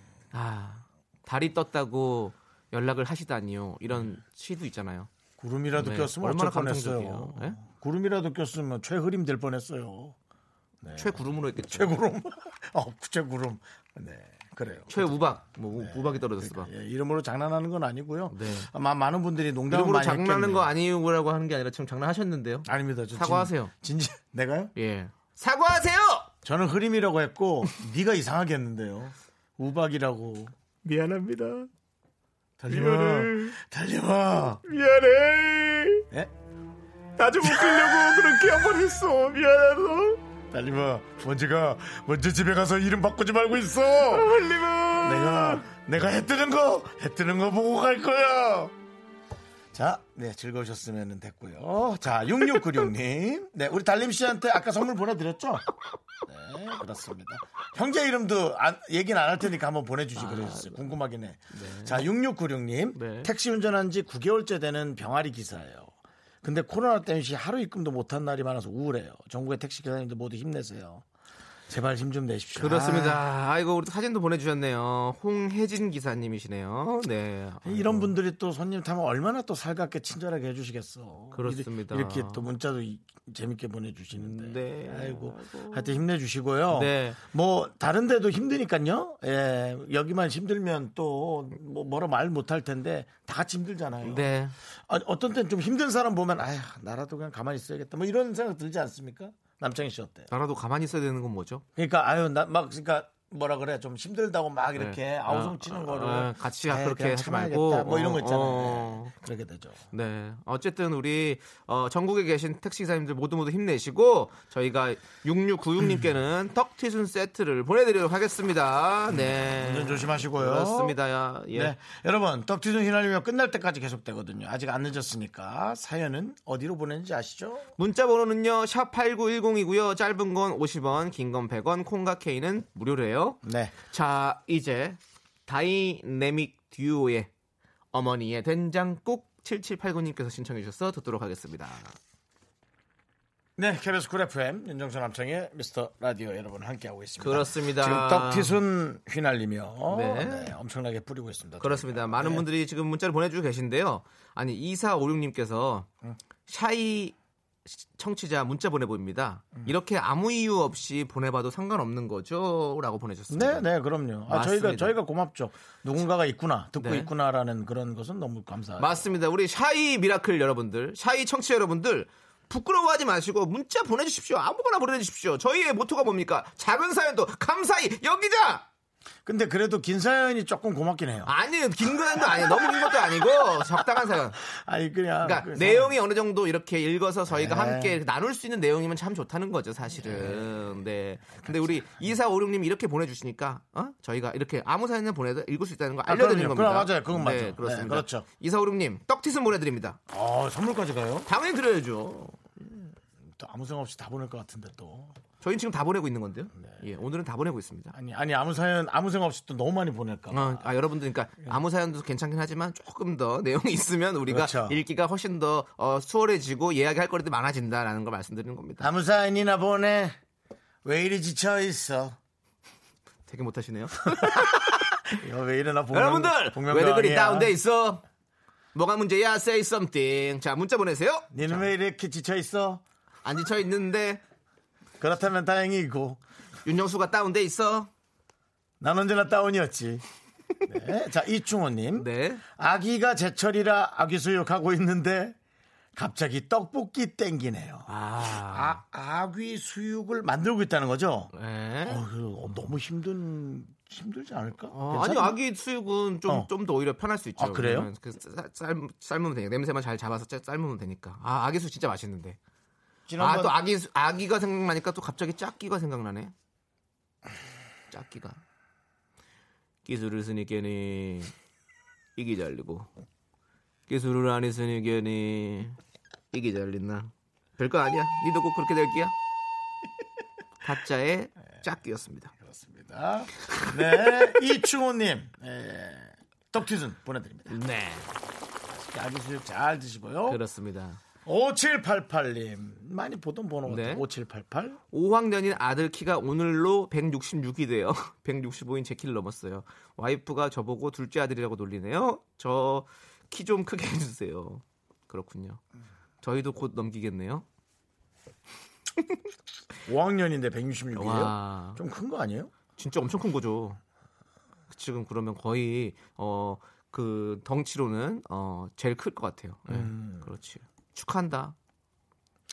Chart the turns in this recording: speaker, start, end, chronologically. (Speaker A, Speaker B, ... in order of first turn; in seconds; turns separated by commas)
Speaker A: 0.3-5.1, Speaker B: 5.4-10.2, Speaker A: 5.7-7.6, Speaker B: 10.8-20.7, Speaker A: 10.9-11.9, Speaker A: 14.9-16.7, Speaker A: 18.3-18.7, Speaker A: 19.7-23.7, Speaker B: 22.7-24.7, Speaker A: 24.8-26.3, Speaker B: 26.4-30.5, Speaker A: 30.8-31.7, Speaker B: 32.6-34.6, Speaker A: 32.7-33.6, Speaker A: 34.6-36.0, Speaker A: 37.2-40.2, Speaker B: 37.4-38.5, Speaker B: 40.5-44.3, Speaker A: 44.1-45.7, Speaker B: 45.0-48.7, Speaker B: 49.7-55.7, Speaker B: 56.2-65.9, Speaker A: 60.2-60.8, Speaker A: 61.5-62.1, Speaker A: 63.0-63.3, Speaker B: 66.4-71.0, Speaker B: 71.7-73.2, Speaker A: 72.6-78.1, Speaker B: 77.7-94.3, Speaker A: 81.3-82.5, Speaker A: 84.2-86.0, Speaker A: 86.7-87.2, Speaker A: 94.0-94.5, Speaker B: 94.9-100.3, Speaker A: 100.3-101.7, Speaker B: 101.8-109.8, Speaker A: 104.8-109.1, Speaker A: 109.9-121.7, Speaker B: 119.1-121.0, Speaker B: 121.5-127.7, Speaker A: 127.8-137.3, Speaker B: 133.4-133.8, Speaker A: 137.9-142.0, Speaker B: 143.6-152.4, Speaker A: 147.2-148.6, Speaker A: 149.9-150.6, Speaker A: 151.6-155.9, Speaker A: 156.5-157.2, Speaker A: 157.7-163.7, Speaker B: 163.3-169.1, Speaker A: 164.3-165.0, Speaker A: 166.8-167.1, Speaker A: 168.8-178.7, Speaker B: 179.2-181.3, Speaker A: 181.3-184.4, Speaker B: 182.2-183.2, Speaker B: 184.5-185.9, Speaker A: 185.2-200.0, Speaker B: 187.3-188.0, Speaker B: 189.9-190.6, Speaker B: 191.4-191.9, Speaker B: 196.1-198.3, Speaker B: 200.1-201.3, Speaker A: 201.3-202.4, Speaker B: 202.6-205.2, Speaker A: 205.4-207.9, Speaker B: 207.9-210.7, Speaker A: 210.3-218.9, Speaker B: 214.3-214.8, Speaker B: 218.8-220.2, Speaker B: 220.8-222.2, Speaker A: 223.3-225.2, Speaker B: 224.2-224.6, Speaker B: 225.1-227.5, Speaker A: 225.9-228.0, Speaker A: 228.7-231.7, Speaker B: 231.3-232.8, Speaker A: 233.2-234.2, Speaker B: 235.0-236.2, Speaker A: 236.7-237.9, Speaker B: 238.8-240.1, Speaker B: 240.7-245.4, Speaker A: 242.0-242.4, Speaker B: 245.9-251.3, Speaker A: 247.9-248.8, Speaker A: 251.3-252.0, Speaker B: 251.8-255.4, Speaker A: 254.7-262.4, Speaker B: 257.4-257.9, Speaker B: 263.1-263.6, Speaker A: 263.2-266.3, Speaker A: 267.9-268.4, Speaker A: 269.9-271.3, Speaker A: 272.2-272.9, Speaker A: 273.9-275.8, Speaker A: 276.3-279.1, Speaker A: 280.6-282.3, Speaker B: 282.4-287.6, Speaker A: 283.5-284.3, Speaker A: 287.5-288.1, Speaker B: 288.7-290.4, Speaker A: 290.3-291.0, Speaker B: 291.2-294.8, Speaker A: 293.7-294.1, Speaker A: 294.9-305.6, Speaker A: 306.2-307.5, Speaker B: 309.9-312.5, Speaker A: 311.0-311.8, Speaker A: 312.8-313.8, Speaker A: 314.7-321.6, Speaker B: 319.7-320.3